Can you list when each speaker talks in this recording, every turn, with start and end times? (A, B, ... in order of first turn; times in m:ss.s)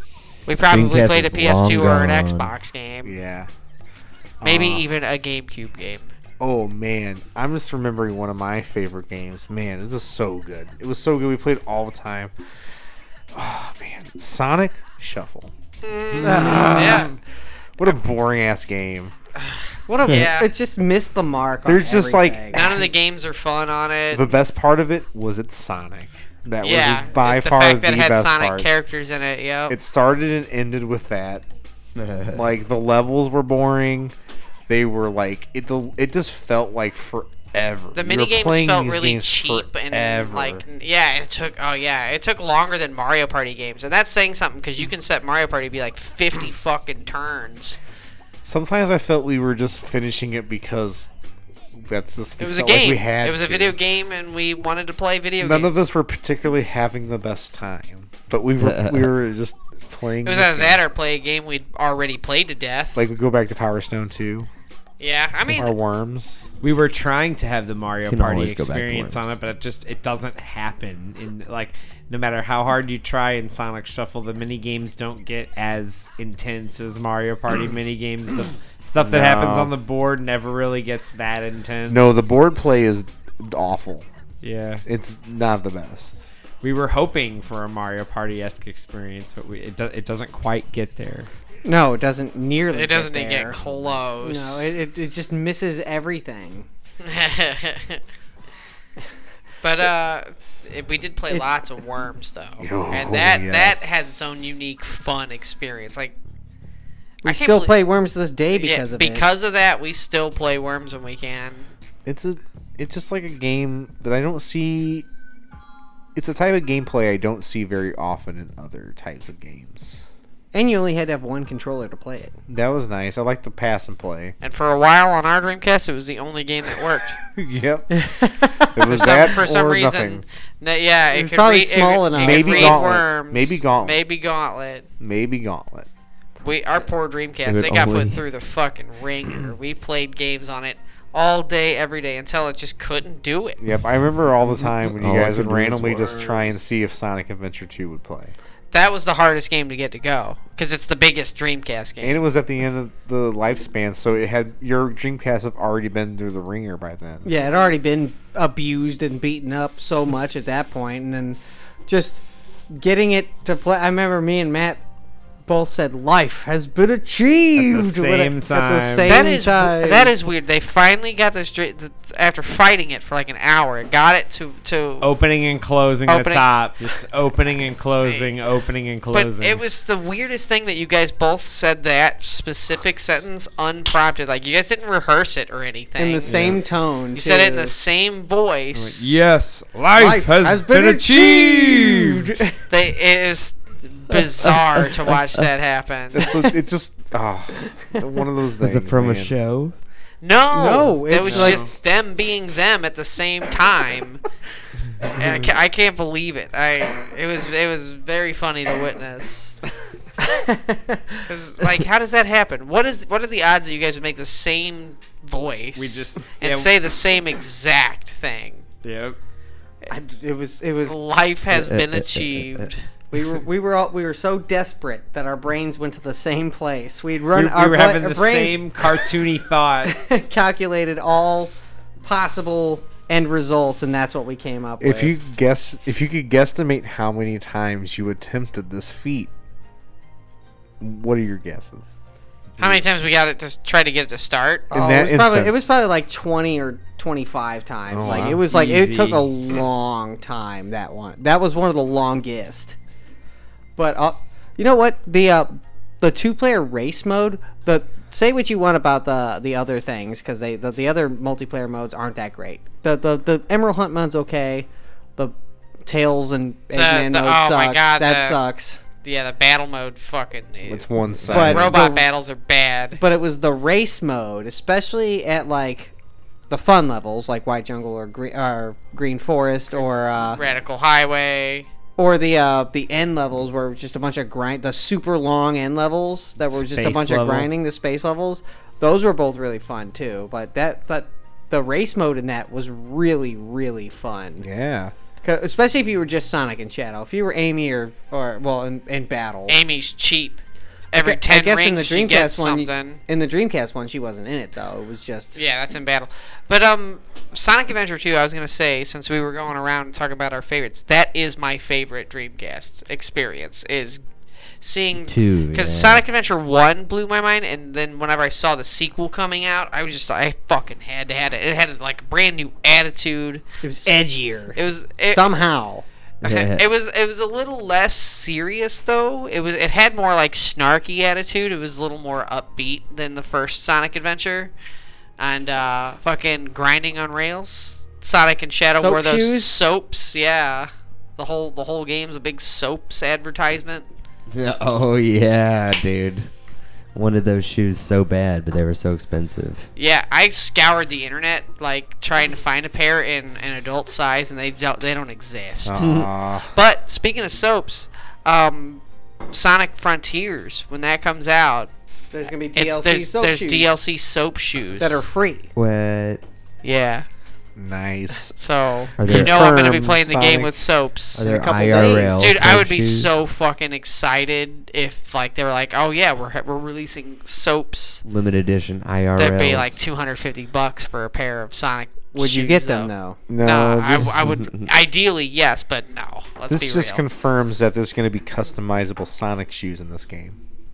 0:00.4-0:03.1 A
0:00.7-0:02.5 B
0:03.0-0:03.5 C
0:04.4-0:04.8 C
0:04.4-0:06.1 A
0:06.4-0:12.3 C
0:13.3-0:15.5 C
0:15.8-0:17.1 A
0:16.1-0:17.2 C
0:16.2-0:17.0 D
0:17.8-0:19.1 C
0:19.4-0:20.5 A
0:19.9-0:22.6 D
0:21.6-0:22.9 C
0:22.5-0:24.3 A
0:24.1-0:28.7 C
0:26.6-0:29.8 A
0:29.7-0:31.4 C
0:32.0-0:32.5 B
0:32.3-0:34.1 C
0:34.7-0:40.6 C
0:37.9-0:47.8 A
0:48.4-0:51.1 C
0:51.7-0:53.7 C
0:52.4-0:55.9 A
0:55.4-1:00.8 C
0:58.6-0:59.1 B
1:00.2-1:03.1 A
1:03.0-1:04.5 C
1:05.0-1:05.7 A
1:05.5-1:06.4 C
1:06.6-1:22.2 E
1:08.1-1:09.3 B
1:19.0-1:19.7 C
1:21.9-1:24.0 C
1:24.4-1:24.8 E
1:24.8-1:26.2 C
1:26.6-1:31.3 E
1:31.6-1:33.6 D
1:32.7-1:34.7 A
1:34.2-1:36.7 D
1:37.0-1:38.0 A
1:39.6-1:46.2 A
1:42.6-1:44.5 C
1:47.2-1:47.7 A
1:47.2-1:49.2 D
1:48.5-1:51.7 A
1:52.0-1:55.0 C
1:56.1-2:00.0 C
2:00.5-2:02.3 D
2:02.5-2:04.3 C
2:04.4-2:07.2 A
2:07.2-2:08.1 C
2:07.9-2:08.8 D
2:08.6-2:10.2 C
2:08.9-2:14.9 A
2:11.1-2:12.9 D
2:12.2-2:14.0 C
2:15.0-2:15.9 C
2:16.4-2:23.6 A
2:17.4-2:18.2 B
2:23.6-2:28.3 C
2:24.4-2:26.6 B
2:28.7-2:32.2 A
2:32.0-2:37.3 C
2:37.2-2:44.8 D
2:45.4-2:50.1 D
2:47.6-2:49.3 E
2:49.0-2:55.1 A
2:55.0-2:59.6 E
2:56.1-2:56.5 A
2:58.0-2:58.3 A
2:59.1-3:06.6 A
3:06.0-3:07.7 D
3:06.2-3:06.6 E
3:07.1-3:09.2 A
3:08.7-3:12.3 E
3:09.9-3:12.6 D
3:12.7-3:16.3 A
3:14.4-3:15.2 B
3:16.1-3:19.3 C
3:16.2-3:16.5 D
3:17.6-3:18.0 D
3:18.6-3:19.7 B
3:20.2-3:24.2 A
3:20.5-3:21.6 D
3:21.2-3:21.6 E
3:25.1-3:29.6 A
3:30.2-3:31.3 D
3:31.3-3:38.7 A
3:35.7-3:36.7 E
3:38.8-3:39.2 E
3:39.9-3:41.0 D
3:40.8-3:42.8 A
3:41.5-3:42.7 B
3:43.1-3:49.2 D
3:47.3-3:50.0 E
3:49.8-3:55.1 D
3:54.8-3:59.3 C
4:00.8-4:01.9 C
4:02.6-4:02.8 C
4:02.6-4:04.7 A
4:04.7-4:05.6 C
4:04.7-4:12.8 D
4:07.9-4:08.4 C
4:08.4-4:09.3 E
4:13.8-4:25.3 D
4:25.8-4:28.8 D
4:26.7-4:28.4 A
4:29.0-4:33.0 A
4:30.6-4:31.8 C
4:31.3-4:32.1 D
4:33.0-4:35.9 D
4:36.5-4:40.4 D
4:40.3-4:41.7 A
4:42.0-4:54.4 D
4:46.5-4:47.5 E
4:54.4-4:54.9 C
4:55.2-4:59.6 D
4:59.5-5:00.4 A
5:00.9-5:03.0 A
5:00.9-5:05.4 D
5:05.3-5:14.0 A
5:14.6-5:23.9 A
5:15.0-5:16.0 B
5:23.6-5:24.6 D
5:24.5-5:25.2 A
5:25.1-5:25.8 D
5:26.2-5:26.6 B
5:26.2-5:34.5 A
5:35.2-5:43.8 A
5:38.7-5:39.6 D
5:44.3-5:46.3 B
5:46.9-5:49.7 B
5:49.8-6:01.7 A
5:55.6-5:56.5 C
5:55.8-5:56.1 B
6:02.1-6:03.7 D
6:02.5-6:05.0 A
6:04.8-6:05.5 D
6:05.6-6:06.2 B
6:06.6-6:07.0 A
6:07.6-6:08.4 C
6:08.3-6:11.3 A
6:09.0-6:09.5 B
6:09.0-6:10.5 C
6:11.1-6:13.1 B
6:11.2-6:12.3 D
6:12.0-6:18.0 A
6:18.0-6:19.8 B
6:19.2-6:22.9 A
6:22.1-6:23.2 D
6:23.3-6:24.3 C
6:23.4-6:27.0 A
6:24.2-6:24.7 B
6:26.5-6:30.4 C